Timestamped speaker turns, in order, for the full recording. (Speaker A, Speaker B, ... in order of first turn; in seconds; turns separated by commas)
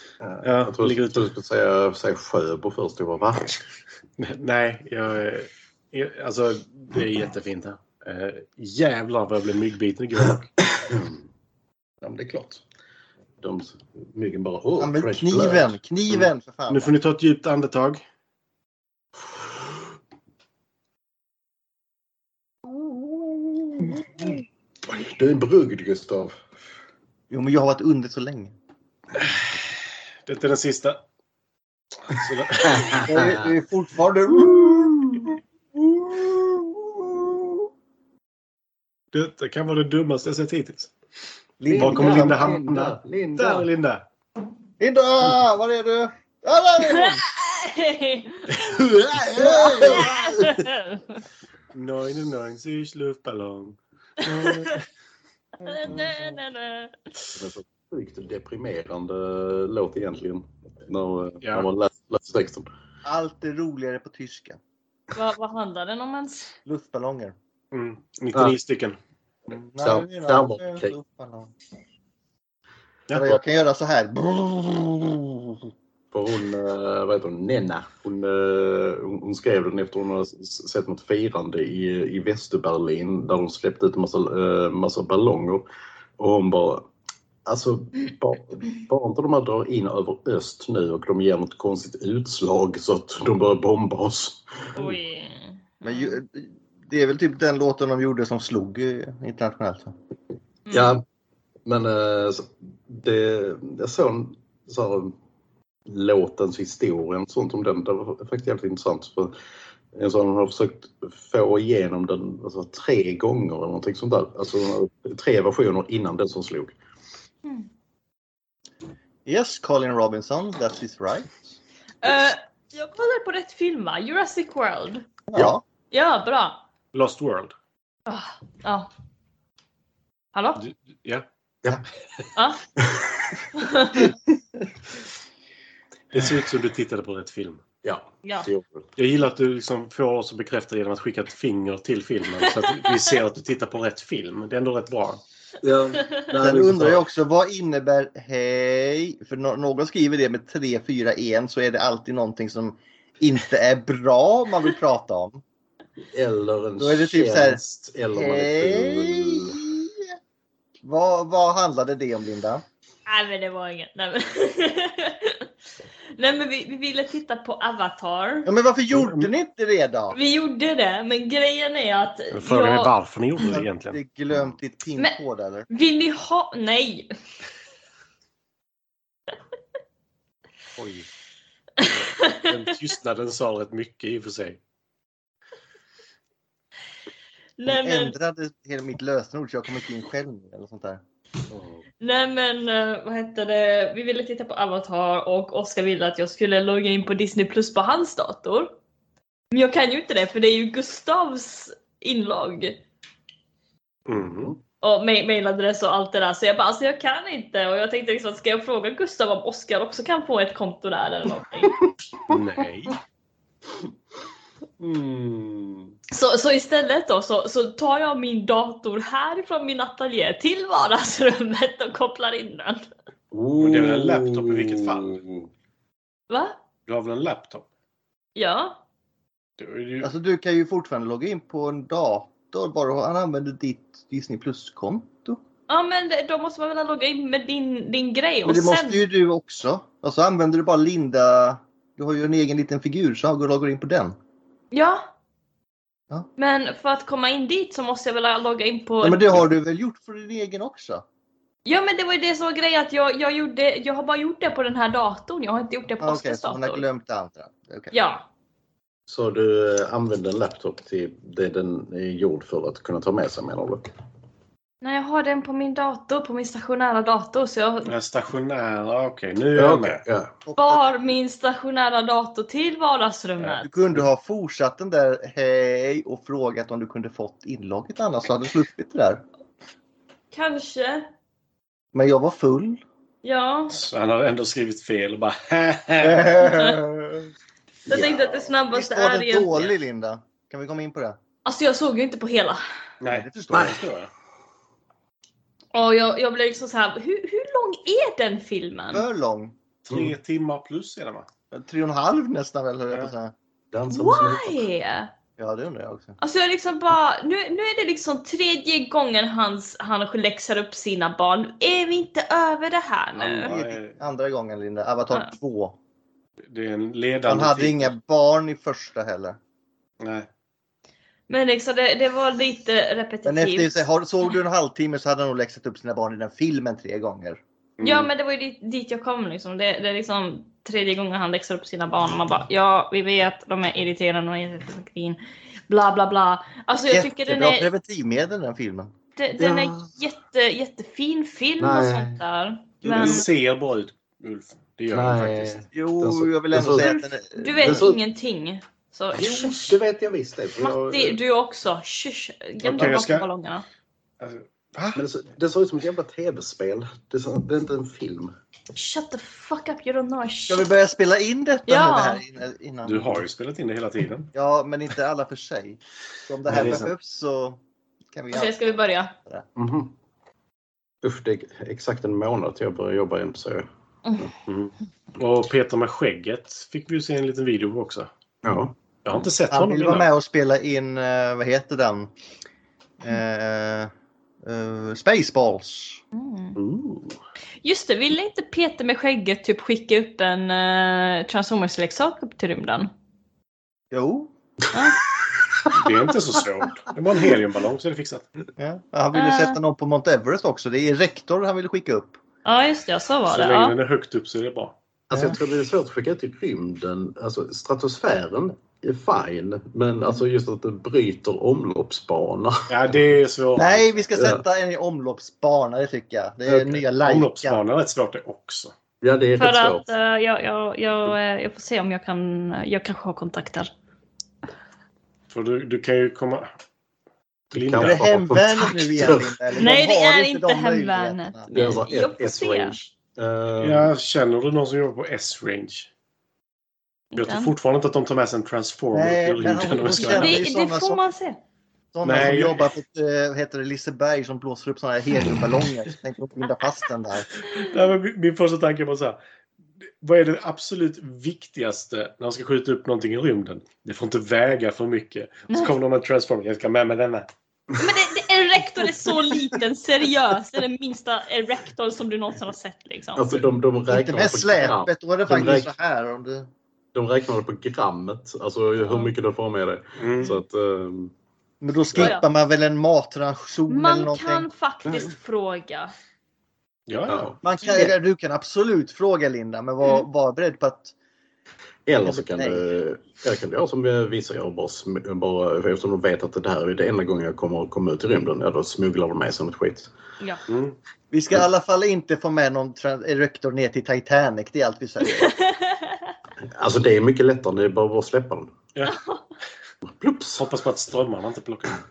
Speaker A: 0.2-3.6, Speaker B: 0.4-1.3, Speaker B: 4.2-10.5, Speaker A: 10.7-11.2, Speaker A: 12.0-12.6, Speaker A: 13.4-15.8, Speaker C: 14.8-16.9, Speaker B: 16.7-18.0, Speaker A: 19.2-19.6, Speaker C: 22.7-24.4, Speaker A: 24.9-26.4, Speaker C: 27.3-28.5, Speaker B: 30.3-31.0, Speaker B: 32.1-33.1, Speaker A: 32.6-33.5, Speaker C: 33.1-35.0, Speaker A: 34.4-35.3, Speaker C: 36.0-37.3, Speaker B: 39.1-40.9, Speaker C: 41.6-42.6, Speaker A: 41.7-43.7, Speaker B: 41.7-44.0, Speaker C: 44.8-47.2, Speaker D: 46.9-48.5, Speaker B: 48.5-50.0, Speaker A: 49.1-50.6, Speaker C: 49.4-50.1, Speaker D: 50.0-51.2, Speaker B: 51.7-54.8, Speaker D: 54.2-54.8, Speaker D: 55.6-56.9, Speaker C: 55.9-56.4, Speaker A: 57.3-62.7, Speaker C: 63.0-64.6, Speaker D: 65.1-66.5, Speaker C: 66.7-67.4, Speaker B: 67.7-69.0, Speaker C: 69.5-71.5, Speaker A: 69.8-70.9, Speaker C: 73.1-75.5, Speaker A: 76.1-85.7, Speaker A: 86.2-86.9, Speaker A: 87.5-94.9, Speaker D: 94.8-96.2, Speaker C: 95.8-100.0, Speaker D: 100.7-101.0, Speaker A: 100.7-101.0, Speaker A: 101.7-105.2, Speaker A: 105.9-109.3, Speaker A: 109.9-116.8, Speaker C: 119.2-121.5, Speaker D: 122.0-125.1, Speaker C: 125.3-125.6, Speaker D: 125.9-126.6, Speaker B: 126.9-127.5, Speaker D: 128.1-128.9, Speaker D: 130.3-130.6, Speaker B: 130.6-131.2, Speaker D: 132.3-132.6, Speaker A: 132.8-133.4, Speaker D: 133.6-134.0, Speaker B: 136.1-137.6, Speaker A: 137.8-138.9, Speaker D: 138.2-138.5, Speaker B: 139.0-145.2, Speaker A: 145.6-147.1, Speaker C: 146.4-155.4, Speaker A: 156.1-159.6, Speaker C: 156.8-160.1, Speaker C: 160.8-162.6, Speaker D: 163.1-165.5, Speaker D: 166.2-168.5, Speaker C: 168.4-170.2, Speaker B: 168.9-169.3, Speaker D: 170.1-172.9, Speaker B: 172.3-174.0, Speaker C: 173.4-175.7, Speaker D: 175.7-177.1, Speaker B: 180.8-181.1, Speaker D: 181.8-182.5, Speaker B: 181.8-184.6, Speaker D: 187.6-188.2, Speaker C: 187.7-191.0, Speaker A: 191.5-191.8, Speaker D: 192.0-198.7, Speaker D: 199.5-202.8, Speaker B: 204.1-204.5, Speaker A: 204.1-204.6, Speaker D: 204.8-211.8, Speaker B: 212.3-213.0, Speaker B: 214.8-215.9, Speaker D: 216.1-222.9, Speaker A: 223.3-225.5, Speaker B: 223.6-225.2, Speaker D: 226.3-226.6, Speaker B: 226.9-227.7, Speaker D: 228.4-228.8, Speaker B: 229.6-230.1, Speaker C: 230.0-235.4, Speaker D: 235.7-239.0, Speaker C: 238.4-244.2, Speaker D: 244.7-245.1, Speaker D: 246.4-249.4, Speaker C: 249.0-251.1, Speaker D: 251.7-256.8, Speaker C: 256.0-257.9, Speaker D: 257.9-258.2, Speaker A: 259.1-263.9, Speaker D: 264.8-267.9, Speaker B: 267.9-270.0, Speaker A: 269.6-270.3, Speaker C: 270.5-270.9, Speaker D: 270.6-273.7, Speaker C: 273.4-279.2, Speaker D: 280.3-281.1, Speaker C: 281.9-282.8, Speaker D: 283.2-283.8, Speaker B: 283.7-286.3, Speaker C: 286.0-287.3, Speaker D: 286.4-286.8, Speaker D: 287.9-289.7, Speaker C: 287.9-291.2, Speaker D: 291.4-292.6, Speaker B: 293.0-294.1, Speaker C: 293.0-293.8, Speaker A: 293.5-293.8, Speaker D: 295.7-299.1, Speaker C: 298.9-299.6, Speaker B: 299.8-301.3, Speaker C: 301.5-303.3, Speaker A: 303.7-304.7, Speaker D: 303.9-305.1, Speaker C: 305.4-306.2, Speaker D: 306.2-313.5, Speaker B: 313.1-314.0, Speaker C: 313.5-315.8, Speaker B: 316.5-317.9, Speaker C: 317.3-319.4, Speaker B: 320.0-320.3, Speaker D: 321.3-323.8, Speaker C: 323.2-327.4, Speaker B: 327.8-328.1, Speaker D: 327.8-337.7, Speaker C: 336.9-338.9, Speaker D: 339.2-343.3, Speaker A: 341.6-342.2, Speaker B: 342.8-345.7, Speaker C: 342.9-343.2, Speaker A: 344.9-346.9, Speaker C: 345.7-347.9, Speaker D: 346.8-349.8, Speaker A: 347.5-348.0, Speaker A: 349.1-351.2, Speaker D: 350.6-353.6, Speaker B: 352.6-353.3, Speaker B: 354.2-355.0, Speaker A: 354.9-358.3, Speaker D: 358.7-360.7, Speaker C: 360.5-363.2, Speaker D: 361.7-362.2, Speaker B: 362.9-364.3, Speaker C: 364.3-367.6, Speaker B: 366.5-366.9, Speaker A: 366.5-366.9, Speaker C: 368.1-369.4, Speaker D: 368.3-369.1, Speaker A: 369.6-369.9, Speaker A: 371.0-373.7, Speaker B: 374.5-378.1, Speaker A: 378.4-378.8, Speaker B: 379.1-380.1, Speaker C: 379.5-382.1, Speaker C: 383.0-383.9, Speaker C: 384.4-386.0, Speaker D: 386.1-386.6, Speaker A: 386.6-387.1, Speaker D: 387.6-392.9, Speaker C: 393.9-394.3, Speaker A: 395.1-395.9, Speaker B: 395.7-398.3, Speaker C: 398.6-402.2, Speaker D: 399.1-399.6, Speaker D: 402.4-403.8, Speaker B: 403.3-404.7, Speaker A: 405.1-413.2, Speaker C: 405.1-405.4, Speaker B: 412.7-414.1, Speaker C: 413.6-417.6, Speaker A: 414.2-414.4, Speaker A: 416.5-416.8, Speaker B: 417.0-418.7, Speaker A: 419.0-419.9, Speaker D: 419.4-423.7, Speaker B: 425.3-426.5, Speaker A: 427.5-429.5, Speaker B: 427.5-428.1, Speaker C: 427.8-431.8, Speaker D: 429.6-432.8, Speaker A: 431.5-433.9, Speaker B: 433.6-435.9, Speaker D: 437.1-437.5, Speaker B: 437.2-440.4, Speaker C: 438.9-441.0, Speaker D: 440.0-441.4, Speaker C: 441.9-447.3, Speaker B: 442.0-442.7, Speaker B: 447.5-449.2, Speaker B: 450.0-457.3, Speaker D: 457.8-463.4, Speaker A: 463.1-465.7, Speaker C: 463.9-466.5, Speaker A: 466.9-471.1, Speaker B: 470.0-470.4, Speaker C: 471.6-474.5, Speaker D: 472.0-472.2, Speaker D: 473.7-475.9, Speaker A: 474.9-475.1, Speaker B: 476.9-477.3, Speaker A: 477.1-477.4, Speaker C: 477.4-480.9, Speaker D: 477.6-477.9, Speaker A: 481.9-489.9, Speaker C: 482.0-482.7, Speaker B: 490.5-490.8, Speaker C: 491.1-495.4, Speaker D: 495.2-496.0, Speaker A: 496.5-498.6, Speaker D: 498.9-499.2, Speaker A: 499.8-500.4, Speaker B: 500.4-501.8